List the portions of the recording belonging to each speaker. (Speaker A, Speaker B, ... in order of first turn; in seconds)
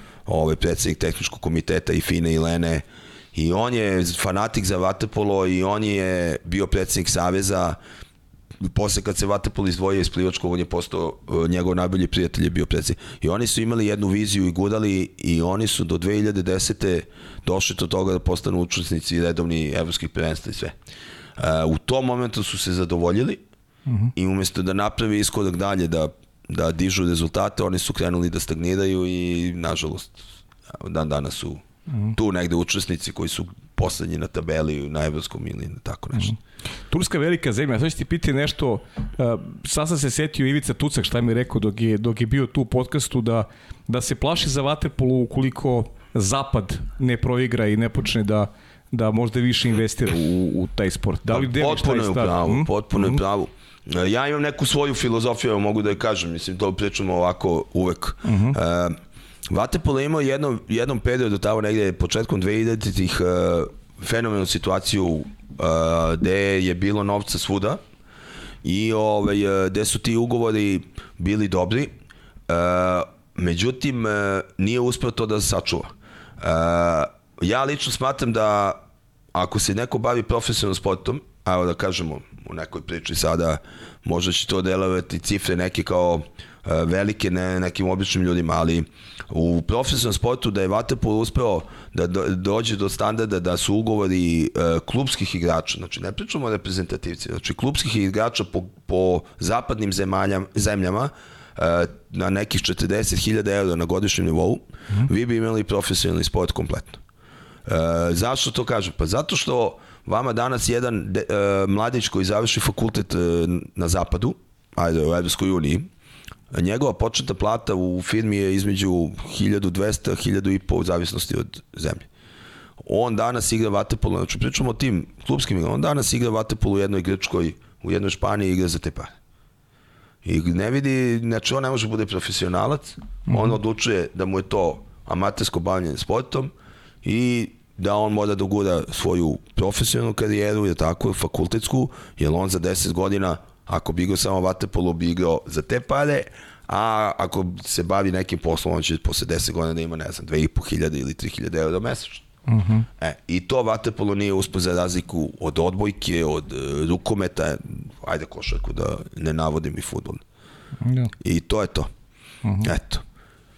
Speaker A: 0.3-7.8, 8.6-20.8, 21.4-23.4, 24.1-36.4, 51.3-67.8, 68.6-71.9, 72.5-78.8, 79.3-107.0, 107.7-115.9, 116.5-122.1, 122.8-129.1, 130.2-136.5, 137.0-152.3, 153.0-160.2, 161.2-161.9, 162.6-163.0
Speaker B: 23.9-24.1, 31.9-32.1, 36.9-53.2, 58.2-58.6, 152.5-152.9, 160.8-161.1, 162.4-162.7